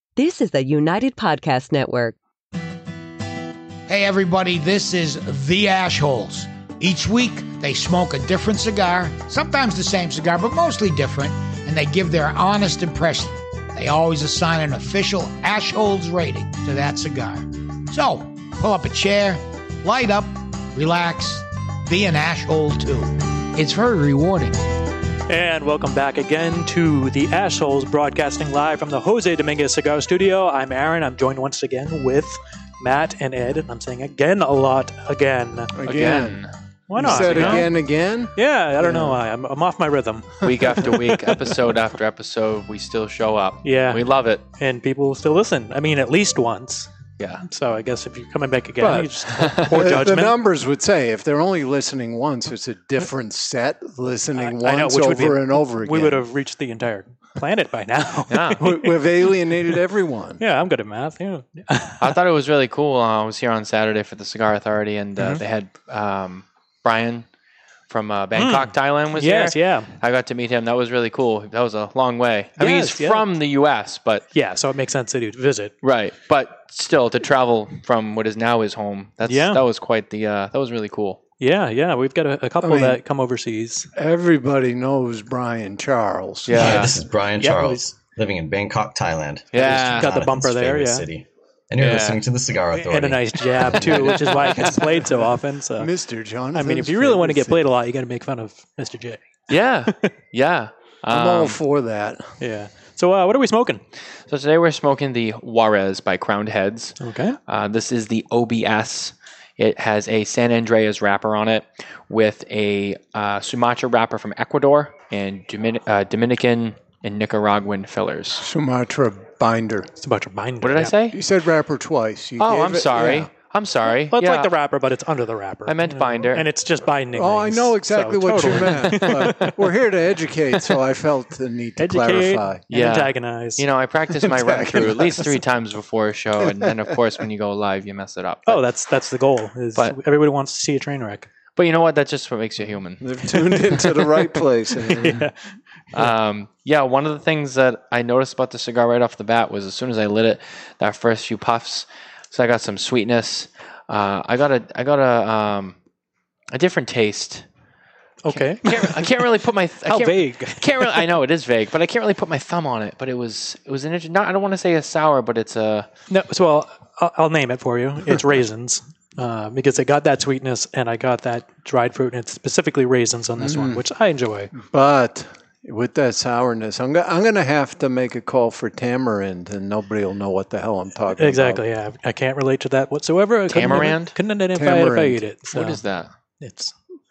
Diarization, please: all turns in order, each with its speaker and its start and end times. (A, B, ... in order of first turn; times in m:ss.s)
0:00.2-0:02.1 A
0:03.9-0:24.6 B
0:25.3-0:35.7 C
0:35.7-0:36.4 D
0:35.8-0:36.5 E
0:36.9-0:37.7 C
0:36.9-0:39.2 D
0:37.1-0:37.7 E
0:38.3-0:41.4 C
0:40.4-0:44.4 E
0:43.6-0:46.9 C
0:47.4-0:50.3 C
0:48.8-0:56.2 D
0:49.4-0:49.8 E
0:54.4-0:59.0 C
0:58.3-0:58.6 E
0:58.6-1:00.4 D
1:00.4-1:02.2 C
1:02.0-1:07.2 E
1:07.9-1:14.2 E
1:08.4-1:09.9 C
1:12.6-1:13.2 C
1:14.3-1:15.7 C
1:15.8-1:21.2 E
1:19.2-1:19.6 C
1:21.4-1:23.9 C
1:22.6-1:23.0 D
1:23.9-1:26.8 D
1:26.4-1:27.0 E
1:26.6-1:34.4 F
1:27.4-1:27.8 C
1:29.5-1:30.1 E
1:29.9-1:31.1 C
1:31.8-1:32.1 E
1:32.7-1:35.9 C
1:34.3-1:35.3 D
1:35.8-1:37.6 D
1:36.5-1:39.2 C
1:39.5-1:41.6 E
1:41.1-1:42.3 D
1:42.4-1:43.8 C
1:44.3-1:58.4 E
1:47.0-1:47.4 C
1:58.4-1:59.9 D
2:00.0-2:01.0 C
2:00.6-2:01.2 E
2:01.1-2:03.3 D
2:02.4-2:04.5 E
2:04.1-2:09.8 C
2:05.7-2:06.4 E
2:07.1-2:12.6 D
2:08.4-2:09.0 E
2:11.8-2:13.6 C
2:12.7-2:18.6 E
2:14.2-2:15.3 D
2:18.5-2:21.3 C
2:21.6-2:23.0 E
2:23.0-2:25.2 D
2:23.3-2:26.1 C
2:25.9-2:35.8 E
2:36.5-2:37.4 E
2:38.2-2:39.2 C
2:38.3-2:45.9 E
2:39.8-2:41.1 C
2:46.1-2:54.5 C
2:53.4-2:53.8 D
2:54.6-3:01.6 D
3:01.2-3:05.8 C
3:03.5-3:04.1 E
3:04.5-3:05.2 D
3:05.5-3:06.1 E
3:06.4-3:06.8 C